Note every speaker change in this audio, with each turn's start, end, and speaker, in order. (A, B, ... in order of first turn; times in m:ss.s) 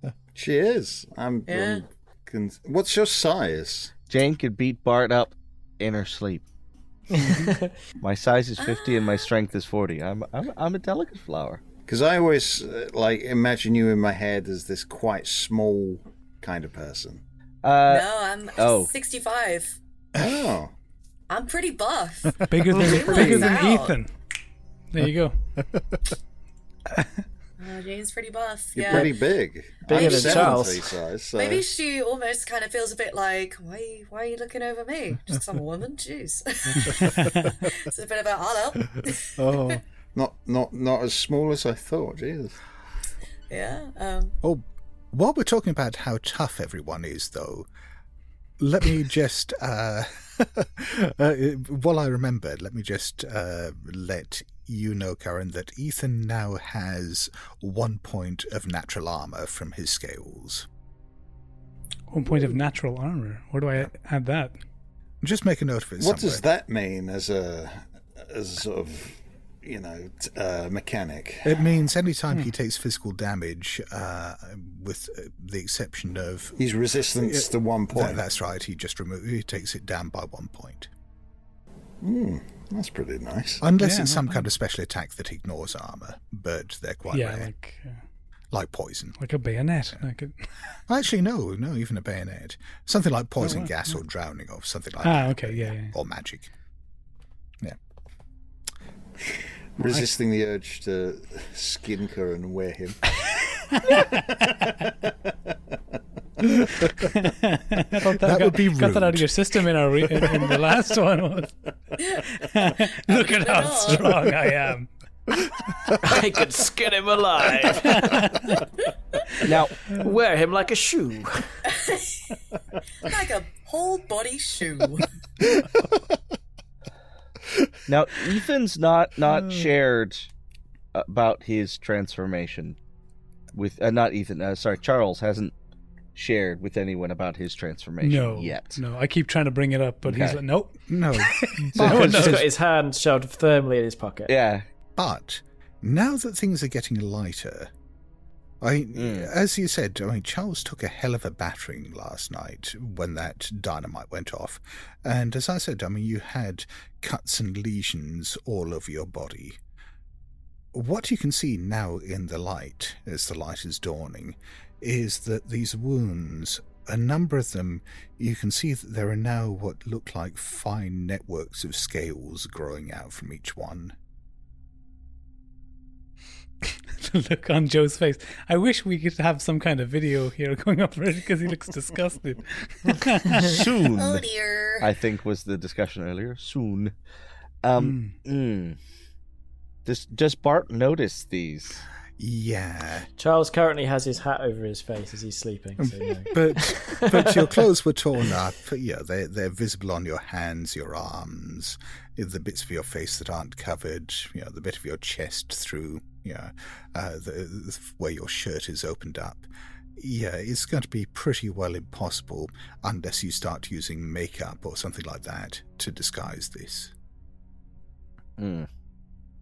0:00.4-0:03.9 A
0:01.5-0:01.8 B
0:04.1-0:06.4 C
0:07.3-0:07.7 D
0:08.0-0:11.6 C
0:08.6-0:09.3 B
0:11.9-0:17.2 A
0:17.6-0:18.9 C
0:17.9-0:19.8 B
0:20.2-0:20.7 A
0:21.3-0:24.0 B
0:22.5-0:24.1 E
0:23.0-0:23.5 A
0:24.9-0:25.5 E
0:25.6-0:25.9 F
0:27.6-0:29.3 B
0:28.8-0:31.7 A
0:29.8-0:30.8 D
0:29.9-0:39.8 B
0:37.0-0:37.5 E
0:39.4-0:39.8 F
0:40.2-0:42.6 A
0:43.5-0:44.4 B
0:44.4-0:47.7 F
0:48.6-1:00.7 F
1:02.1-1:04.6 E
1:05.2-1:06.4 F
1:06.0-1:11.6 A
1:11.4-1:16.6 F
1:16.6-1:18.2 A
1:17.2-1:20.9 F
1:22.0-1:23.7 A
1:23.6-1:27.5 F
1:23.8-1:24.5 E
1:27.1-1:28.0 E
1:28.5-1:29.2 F
1:29.2-1:30.8 E
1:30.9-1:36.5 F
1:33.4-1:33.8 E
1:35.0-1:35.9 E
1:39.8-1:43.1 A
1:43.9-1:44.2 E
1:43.9-1:44.7 A
1:47.0-1:51.6 E
1:48.0-1:49.3 F
1:52.0-1:54.3 B
1:52.3-1:54.9 E
1:55.4-1:55.9 E
1:56.0-1:58.2 D
1:57.8-1:58.6 E
1:59.4-1:59.9 C
1:59.9-2:01.6 D
2:01.7-2:02.2 B
2:03.0-2:05.1 B
2:07.9-2:10.3 C
2:10.9-2:12.8 C
2:13.5-2:15.5 C
2:16.2-2:18.8 C
2:18.0-2:22.4 E
2:20.0-2:20.4 C
2:20.9-2:22.4 F
2:21.8-2:22.4 C
2:21.8-2:24.3 D
2:24.3-2:24.7 C
2:25.0-2:27.7 F
2:28.6-2:39.6 F
2:29.0-2:29.3 C
2:40.7-2:54.0 F
2:57.0-3:03.6 E
3:03.4-3:04.3 C
3:04.0-3:04.9 B
3:04.8-3:07.0 C
3:07.6-3:08.8 C
3:07.8-3:08.2 E
3:09.9-3:11.9 C
3:12.2-3:13.1 F
3:13.2-3:17.5 D
3:16.3-3:36.9 F
3:38.4-3:38.7 C